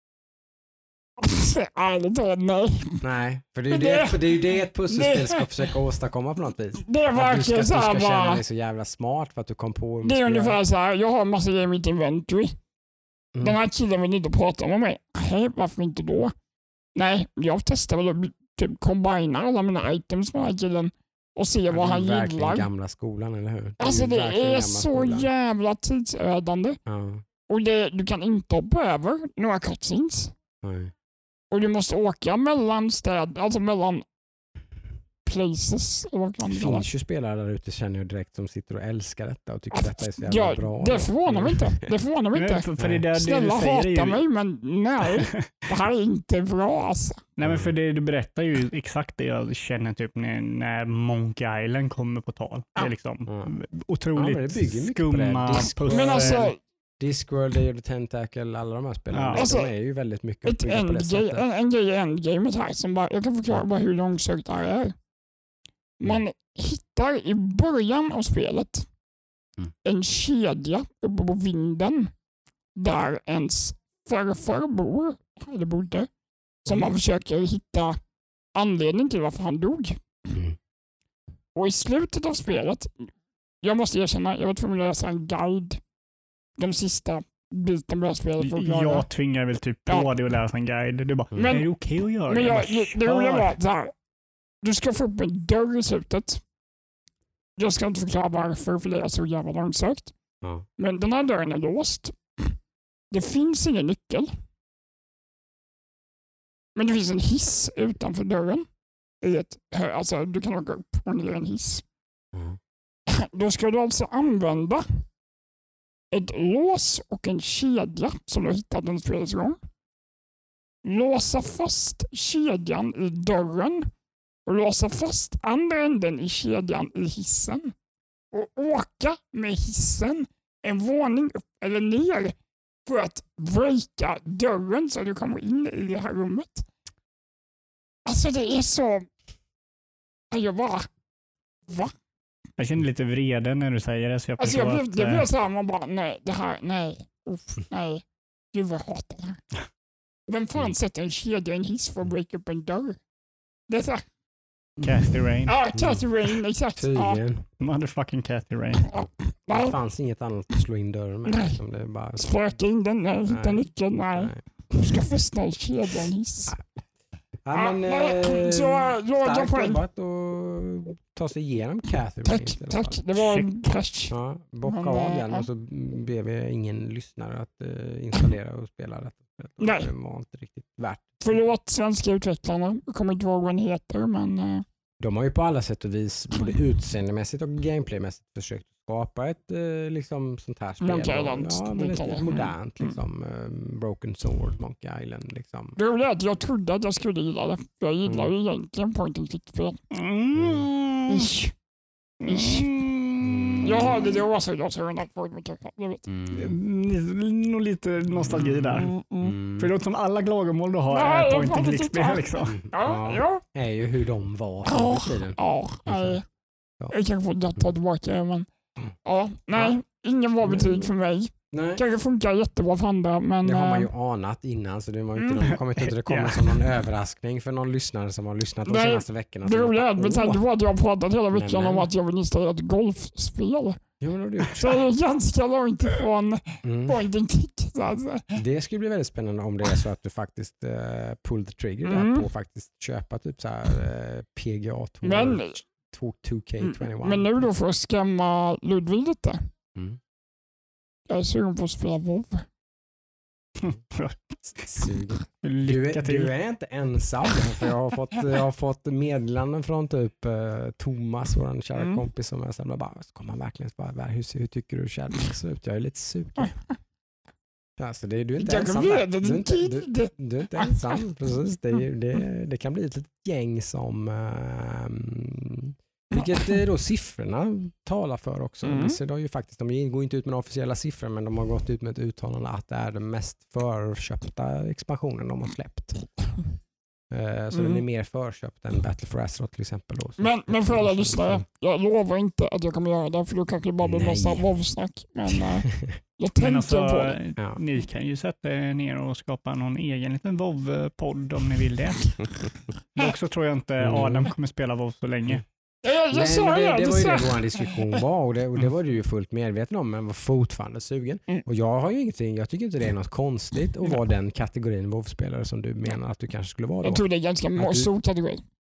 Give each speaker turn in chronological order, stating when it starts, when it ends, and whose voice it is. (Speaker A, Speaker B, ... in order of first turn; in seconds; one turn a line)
Speaker A: 1.2-3.0
Speaker B: 3.0-10.6
Speaker A: 3.7-5.7
Speaker A: 6.8-8.4
Speaker A: 10.0-12.6
Speaker B: 13.3-13.6
Speaker A: 13.4-16.3
Speaker A: 16.9-22.7
Speaker B: 21.7-25.3
Speaker A: 23.8-26.8
Speaker B: 26.9-27.2
Speaker A: 27.5-30.3
Speaker B: 30.6-30.9
Speaker A: 31.5-34.0
Speaker A: 35.2-36.9
Speaker B: 36.5-41.9
Speaker A: 39.7-47.2
Speaker C: 42.3-44.2
Speaker B: 42.8-43.1
Speaker C: 45.0-45.5
Speaker C: 47.4-56.5
Speaker B: 47.4-47.7
Speaker B: 53.3-53.5
Speaker B: 54.1-56.5
Speaker A: 55.9-56.6
Speaker B: 57.0-61.4
Speaker C: 59.1-59.4
Speaker A: 59.3-59.7
Speaker A: 60.4-65.0
Speaker A: 66.0-68.9
Speaker A: 69.8-72.1
Speaker A: 72.8-76.1
Speaker A: 76.6-78.0
Speaker A: 78.5-80.0
Speaker A: 81.5-85.8
Speaker A: 86.6-89.1
Speaker C: 88.4-93.5
Speaker A: 91.3-91.7
Speaker A: 92.3-93.9
Speaker A: 94.6-96.4
Speaker A: 97.6-100.1
Speaker A: 100.8-102.6
Speaker A: 103.1-104.3
Speaker A: 106.7-108.7
Speaker A: 109.2-111.8
Speaker B: 112.3-112.6
Speaker A: 113.1-115.0
Speaker A: 116.1-119.6
Speaker A: 120.8-123.9
Speaker A: 124.5-127.7
Speaker A: 128.3-136.7
Speaker A: 138.1-139.1
Speaker A: 140.3-140.9
Speaker A: 141.7-141.9
Speaker C: 142.6-145.3
Speaker A: 144.4-149.4
Speaker A: 150.3-153.0
Speaker A: 153.7-154.0
Speaker B: 154.8-155.1
Speaker C: 154.8-155.6
Speaker A: 155.4-157.2
Speaker B: 155.7-156.1
Speaker B: 156.8-157.5
Speaker C: 157.6-158.9
Speaker A: 158.9-159.8
Speaker B: 159.5-162.3
Speaker A: 161.3-161.6
Speaker A: 162.2-166.6
Speaker B: 163.3-165.0
Speaker B: 167.4-173.0
Speaker A: 167.5-169.8
Speaker A: 172.2-175.5
Speaker C: 173.2-173.5
Speaker B: 174.1-181.4
Speaker A: 179.6-179.9
Speaker A: 181.2-184.6
Speaker B: 185.0-195.8
Speaker A: 190.8-192.9
Speaker A: 195.8-199.8
Speaker B: 198.1-198.3
Speaker C: 199.9-201.3
Speaker B: 200.3-200.7
Speaker A: 201.1-201.5
Speaker C: 202.2-203.7
Speaker A: 202.3-202.7
Speaker B: 203.2-204.1
Speaker A: 203.6-206.1
Speaker B: 206.1-206.6
Speaker C: 206.3-208.9
Speaker A: 208.7-209.4
Speaker B: 209.2-209.7
Speaker C: 209.6-212.6
Speaker A: 210.9-213.4
Speaker B: 212.5-216.2
Speaker A: 214.6-216.2
Speaker A: 216.9-218.5
Speaker A: 219.0-223.9
Speaker B: 220.4-220.9
Speaker B: 221.5-221.8
Speaker B: 223.4-230.4
Speaker C: 225.3-226.6
Speaker A: 228.7-233.8
Speaker B: 231.3-231.9
Speaker B: 234.0-234.8
Speaker A: 234.5-238.4
Speaker B: 236.6-237.0
Speaker B: 238.3-247.4
Speaker A: 241.8-242.2
Speaker A: 245.0-245.6
Speaker A: 246.6-249.5
Speaker A: 251.1-252.5
Speaker C: 253.6-256.3
Speaker B: 254.7-266.5
Speaker B: 267.8-286.3
Speaker A: 268.4-271.0
Speaker A: 278.6-279.0
Speaker B: 287.1-291.4
Speaker A: 287.5-287.8
Speaker A: 290.2-297.2
Speaker B: 293.8-294.4
Speaker B: 295.7-296.0
Speaker C: 296.4-302.4
Speaker C: 302.9-305.4
Speaker B: 303.8-304.3
Speaker A: 305.8-308.0
Speaker B: 306.1-317.0
Speaker A: 316.8-318.4
Speaker B: 317.6-317.9